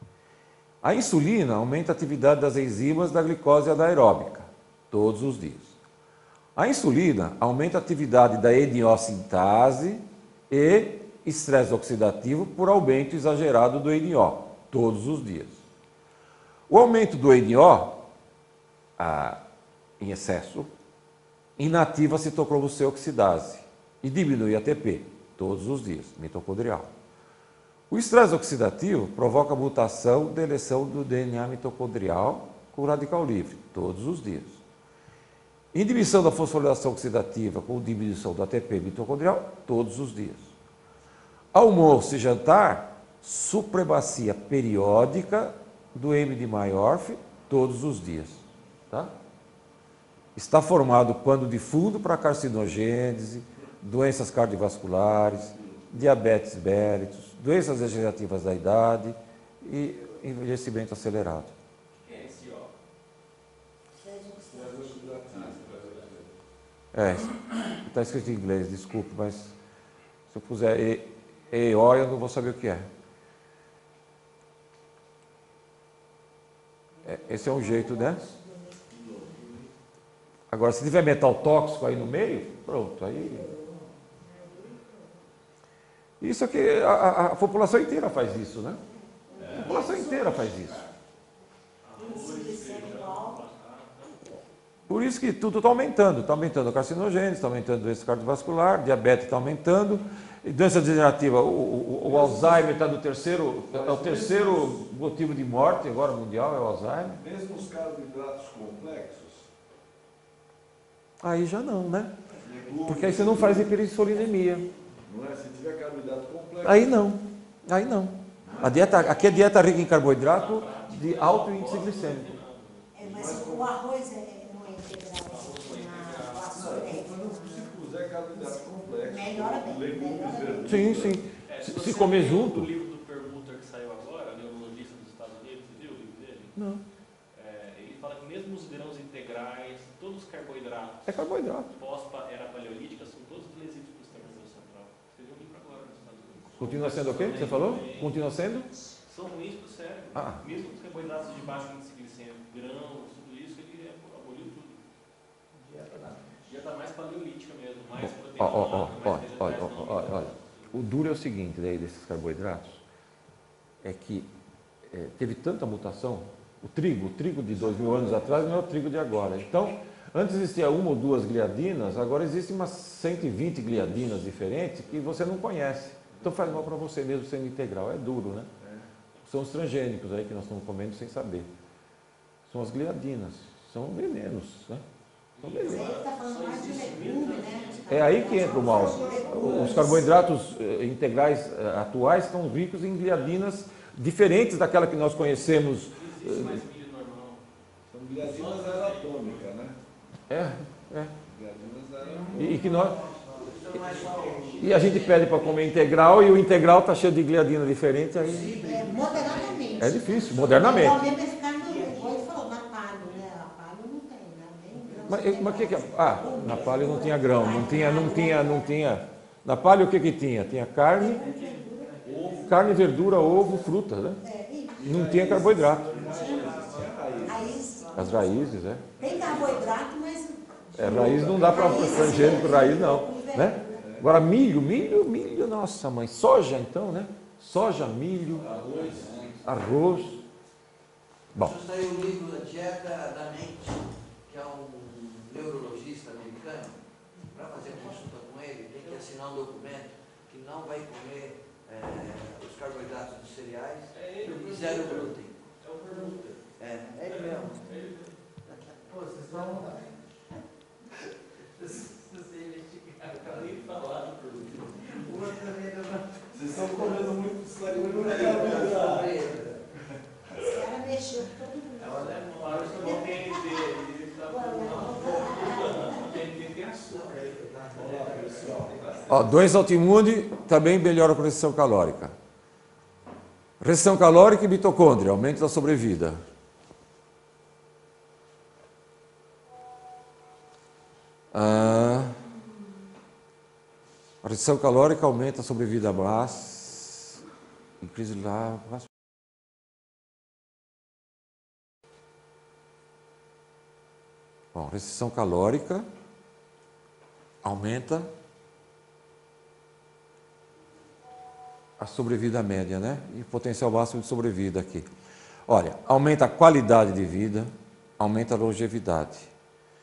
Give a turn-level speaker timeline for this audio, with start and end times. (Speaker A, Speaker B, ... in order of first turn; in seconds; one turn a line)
Speaker A: 0.8-5.8
Speaker A: 6.6-15.6
Speaker A: 16.7-18.0
Speaker A: 19.0-19.4
Speaker A: 20.0-20.7
Speaker A: 21.6-26.9
Speaker A: 27.9-34.6
Speaker A: 35.7-40.5
Speaker A: 41.5-49.1
Speaker A: 50.4-61.5
Speaker B: 55.3-55.9
Speaker C: 61.9-62.7
Speaker D: 64.0-65.4
Speaker B: 64.5-66.3
Speaker A: 66.9-69.5
Speaker A: 70.3-72.9
Speaker D: 76.9-79.2
Speaker A: 77.0-78.2
Speaker B: 78.9-79.7
Speaker A: 80.5-83.5
Speaker D: 83.1-85.2
Speaker A: 86.2-88.8
Speaker D: 88.8-90.4
Speaker E: 89.4-89.9
Speaker A: 89.5-90.8
Speaker C: 91.8-94.3
Speaker D: 91.9-93.4
Speaker A: 94.9-107.2
Speaker B: 102.0-102.7
Speaker B: 103.7-104.9
Speaker B: 107.1-109.5
Speaker A: 111.2-112.1
Speaker B: 112.4-113.8
Speaker A: 112.9-114.7
Speaker D: 114.0-114.7
Speaker B: 115.0-117.0
Speaker A: 116.6-122.3
Speaker B: 118.4-119.0
Speaker C: 119.0-123.0
Speaker D: 122.9-127.8
Speaker B: 123.0-123.7
Speaker C: 125.2-126.6
Speaker B: 126.5-131.2
Speaker D: 128.3-131.2
Speaker A: 130.7-132.7
Speaker C: 131.4-136.6
Speaker A: 136.6-136.8
Speaker C: 137.3-141.2
Speaker A: 141.1-141.7
Speaker C: 141.7-148.2
Speaker A: 146.6-148.7
Speaker C: 149.0-154.8
Speaker A: 150.1-150.4
Speaker E: 155.6-156.4
Speaker C: 156.5-160.8
Speaker A: 158.0-162.8
Speaker A: 163.8-164.3
Speaker A: 164.9-178.5
Speaker B: 167.4-168.5
Speaker B: 176.1-176.7
Speaker B: 178.6-178.9
Speaker A: 179.2-181.5
Speaker A: 182.5-184.8
Speaker C: 185.4-189.0
Speaker A: 185.4-185.9
Speaker D: 185.6-190.2
Speaker A: 187.9-196.6
Speaker B: 188.5-190.0
Speaker C: 195.9-197.4
Speaker B: 197.9-199.8
Speaker C: 198.2-199.3
Speaker A: 200.3-201.2
Speaker B: 201.3-202.6
Speaker E: 202.0-204.6
Speaker A: 202.3-203.0
Speaker F: 202.4-205.2
Speaker C: 203.5-205.6
Speaker A: 204.6-208.6
Speaker F: 208.2-210.9
Speaker D: 208.4-218.8
Speaker A: 209.8-211.1
Speaker C: 210.2-210.6
Speaker E: 211.5-212.3
Speaker E: 214.8-215.3
Speaker A: 215.1-221.3
Speaker B: 216.2-217.5
Speaker D: 220.9-222.1
Speaker E: 221.2-222.4
Speaker B: 222.0-223.7
Speaker A: 222.4-224.2
Speaker D: 224.2-225.4
Speaker B: 224.8-227.6
Speaker A: 224.8-225.9
Speaker E: 225.9-228.4
Speaker D: 226.0-226.7
Speaker D: 227.2-233.9
Speaker A: 227.9-228.9
Speaker C: 229.0-229.6
Speaker A: 230.8-238.5
Speaker B: 230.8-232.6
Speaker B: 233.7-234.1
Speaker B: 238.3-239.4
Speaker E: 238.5-239.4
Speaker A: 239.4-240.2
Speaker F: 241.4-255.4
Speaker C: 253.9-256.4
Speaker F: 256.6-257.8
Speaker C: 257.0-258.2
Speaker F: 258.5-259.8
Speaker E: 258.9-259.9
Speaker C: 262.6-265.0
Speaker F: 264.9-265.6
Speaker E: 264.9-266.0
Speaker B: 266.3-269.2
Speaker F: 266.4-269.7
Speaker D: 270.3-276.2
Speaker C: 271.9-277.2
Speaker E: 272.2-273.2
Speaker F: 272.3-273.1
Speaker F: 276.9-279.1
Speaker B: 277.7-279.5
Speaker A: 279.1-282.2
Speaker A: 283.6-286.2
Speaker A: 291.3-292.2
Speaker A: 294.2-297.2
Speaker A: 297.8-298.9
Speaker A: 304.5-305.9
Speaker A: 307.4-308.1
Speaker A: 311.8-314.9
Speaker A: 315.5-319.3